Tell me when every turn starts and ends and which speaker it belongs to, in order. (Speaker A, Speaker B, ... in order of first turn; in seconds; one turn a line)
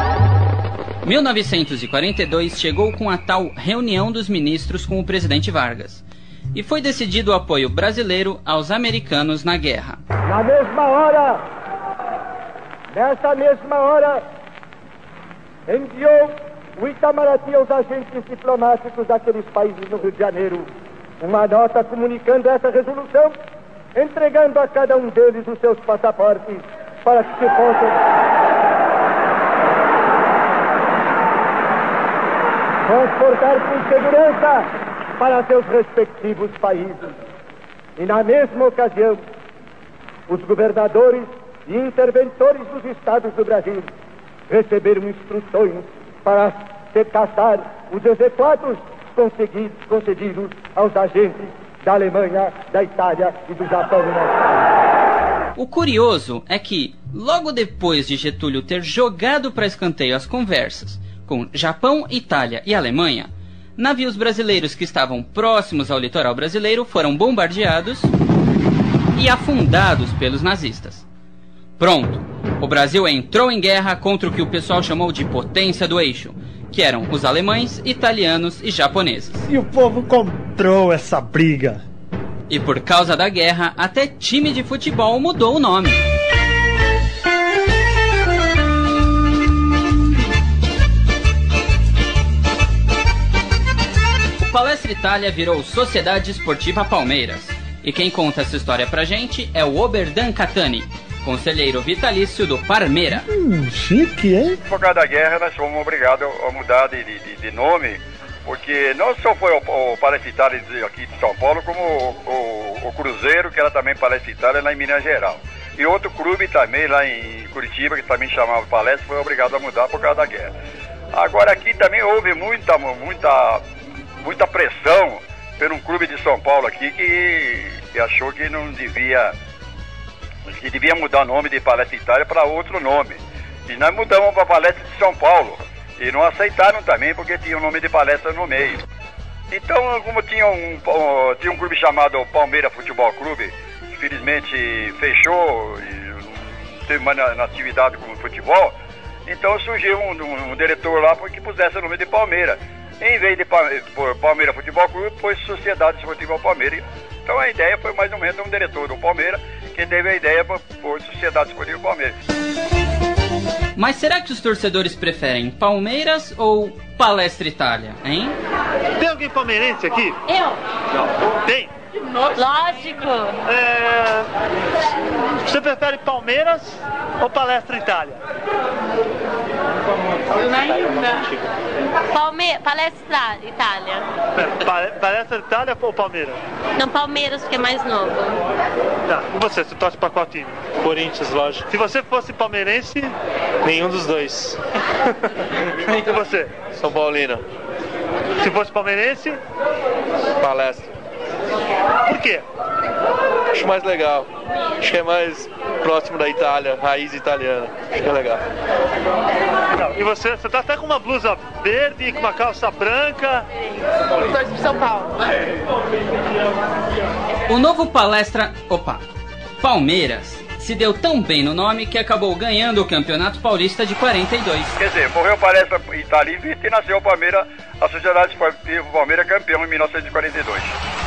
Speaker A: 1.0-10.0
Speaker B: 10.3-11.4
Speaker B: 12.9-14.2
Speaker B: 15.7-20.7
Speaker B: 21.2-23.4
Speaker B: 23.9-28.0
Speaker B: 32.9-34.7
Speaker B: 35.2-37.1
Speaker B: 38.0-39.2
Speaker B: 40.3-43.9
Speaker B: 44.5-54.4
Speaker A: 55.6-68.1
Speaker A: 69.2-71.0
Speaker A: 71.8-79.5
Speaker C: 79.5-81.8
Speaker A: 82.5-86.0
Speaker A: 94.4-103.3
Speaker C: 103.3-104.6
Speaker D: 104.7-120.5
Speaker D: 121.1-123.6
Speaker D: 124.2-129.3
Speaker D: 130.5-138.8
Speaker D: 139.5-148.8
Speaker D: 149.3-162.1
Speaker A: 163.8-168.4
Speaker C: 169.0-170.2
Speaker C: 171.4-171.7
Speaker E: 172.1-173.4
Speaker C: 173.5-174.3
Speaker C: 175.4-178.2
Speaker E: 180.4-181.1
Speaker E: 182.1-184.1
Speaker C: 184.3-186.4
Speaker E: 186.8-188.4
Speaker C: 189.1-190.7
Speaker F: 190.7-191.7
Speaker C: 191.7-193.1
Speaker F: 193.6-194.6
Speaker F: 195.9-197.4
Speaker C: 196.1-196.6
Speaker C: 198.4-199.4
Speaker F: 200.4-200.9
Speaker C: 202.1-202.4
Speaker F: 203.5-204.3
Speaker F: 204.8-208.4
Speaker C: 209.9-213.4
Speaker E: 214.2-215.1
Speaker A: 217.5-219.0
Speaker A: 219.6-224.7
Speaker D: 224.8-230.8